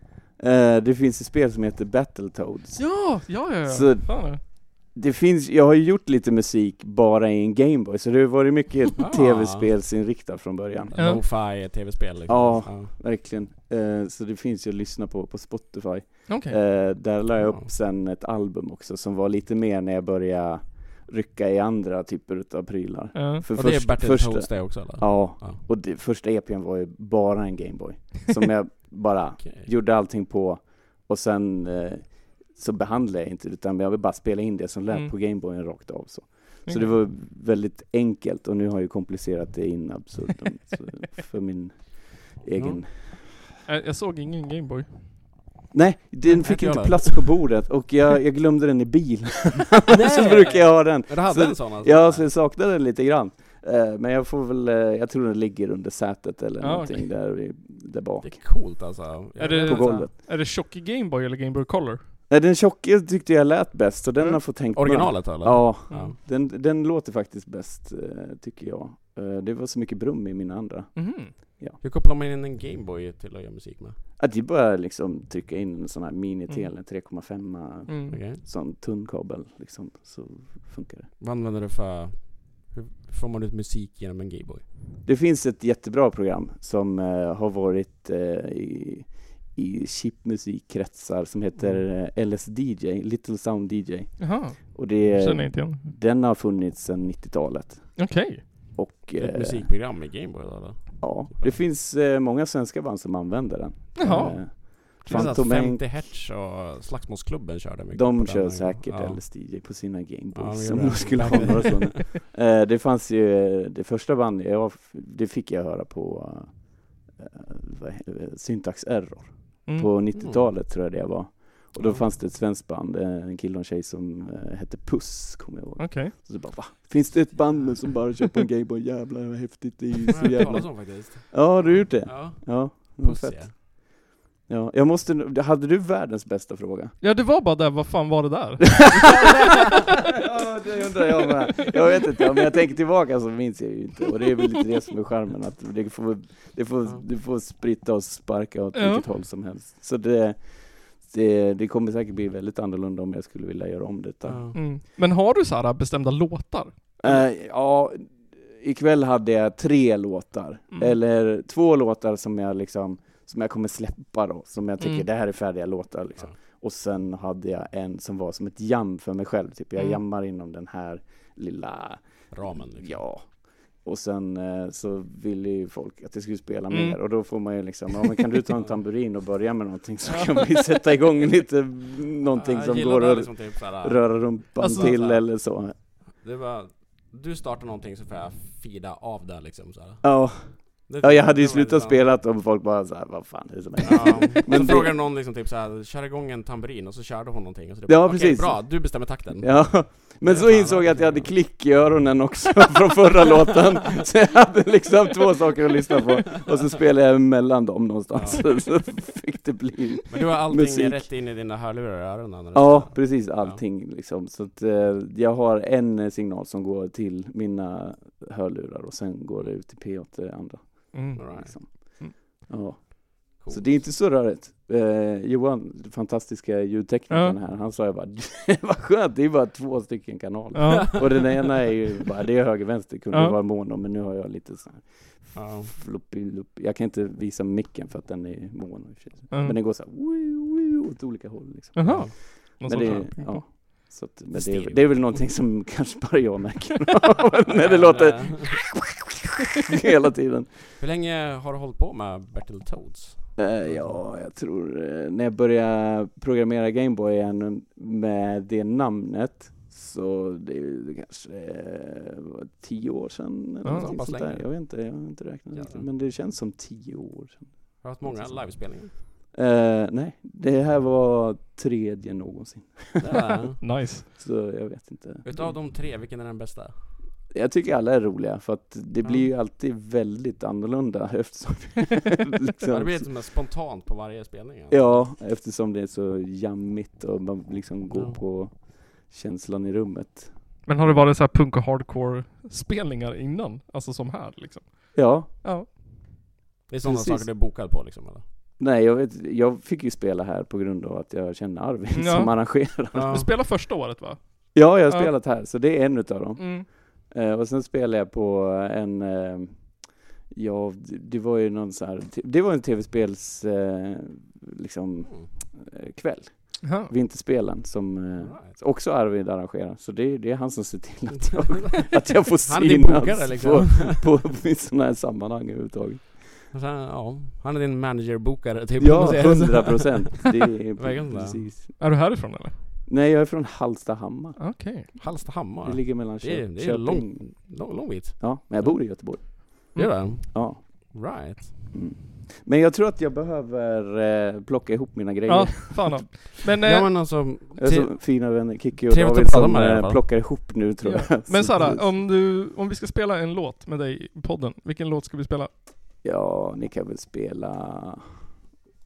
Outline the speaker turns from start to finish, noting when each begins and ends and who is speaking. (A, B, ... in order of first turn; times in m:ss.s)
0:00.4-0:11.7 A
0:02.8-0:04.4 B
0:09.0-0:09.7 C
0:10.9-0:12.9 C
0:11.0-0:11.2 B
0:12.2-0:43.3 A
0:16.3-0:16.7 B
0:17.4-0:17.7 C
0:23.1-0:23.5 B
0:23.5-0:25.6 C
0:29.4-0:29.7 C
0:34.9-0:35.1 B
0:36.6-0:37.0 B
0:42.6-0:42.8 C
0:43.5-0:45.1 B
0:45.7-0:59.0 A
0:46.4-0:47.5 C
0:49.9-0:52.4 C
0:56.6-0:57.1 B
0:58.2-1:00.1 C
0:59.4-1:02.0 B
0:59.6-1:00.1 A
1:02.3-1:11.8 A
1:04.7-1:06.2 C
1:05.9-1:06.1 B
1:10.9-1:11.3 B
1:11.8-1:14.0 C
1:14.2-1:21.1 A
1:17.9-1:18.2 B
1:18.1-1:18.4 C
1:21.2-1:24.6 C
1:25.0-1:39.7 A
1:31.6-1:31.8 C
1:34.2-1:35.9 B
1:38.0-1:38.4 B
1:39.2-1:41.6 C
1:41.0-1:46.0 A
1:44.0-1:45.4 B
1:44.0-1:49.4 C
1:47.9-2:17.0 A
1:50.3-1:52.0 C
1:59.6-1:59.9 B
2:00.2-2:00.5 C
2:01.8-2:02.0 C
2:05.8-2:06.1 B
2:10.1-2:13.5 C
2:10.2-2:10.6 B
2:17.0-2:19.4 B
2:20.2-2:34.5 A
2:28.7-2:29.0 B
2:34.2-2:34.6 C
2:34.5-2:37.2 B
2:37.0-3:05.8 A
2:40.7-2:41.0 B
2:44.8-2:45.1 B
2:49.8-2:50.0 B
2:52.3-2:53.1 C
2:56.7-2:57.0 B
3:02.3-3:12.1 C
3:04.6-3:05.0 B
3:10.0-3:14.9 A
3:13.8-3:21.4 C
3:17.9-3:31.1 A
3:28.1-3:28.9 C
3:30.1-3:33.6 C
3:32.5-4:08.9 A
3:40.9-3:42.1 B
3:41.2-3:41.5 C
3:43.4-3:43.9 C
3:47.1-3:47.4 B
3:50.5-3:51.0 B
3:50.7-3:51.3 C
3:53.1-3:53.4 B
3:55.3-3:55.7 C
3:59.3-3:59.6 B
4:01.7-4:04.0 B
4:01.8-4:02.2 C
4:04.3-4:05.2 C
4:07.5-4:08.6 C
4:09.5-4:10.8 A
4:10.8-4:14.0 C
4:13.4-4:35.6 A
4:23.6-4:23.9 B
4:23.7-4:24.9 C
4:25.5-4:25.9 C
4:27.8-4:28.9 C
4:33.0-4:33.6 C
4:33.6-4:34.0 B
4:35.2-4:36.7 C
4:37.3-4:43.2 A
4:39.0-4:39.3 C
4:42.7-4:45.1 C
4:44.7-4:51.0 A
4:47.9-4:48.2 C
4:50.6-4:55.7 B
4:54.9-4:55.3 A
4:56.7-4:58.2 C
4:56.8-4:57.6 A
4:58.6-5:03.3 A
5:01.9-5:05.2 B
5:02.9-5:03.3 C
5:04.5-5:26.4 A
5:06.4-5:06.7 B
5:16.6-5:16.9 B
5:18.2-5:18.6 C
5:21.1-5:24.0 C
5:26.5-5:30.0 C
5:28.8-5:32.0 A
5:30.8-5:31.5 C
5:31.8-5:32.6 B
5:32.9-5:34.4 A
5:34.4-5:35.2 B
5:35.0-5:41.6 C
5:35.6-5:46.0 A
5:39.7-5:40.3 B
5:45.3-5:46.9 B
5:46.6-5:50.2 C
5:47.6-5:51.9 A
5:50.8-5:55.5 B
5:56.0-5:58.3 A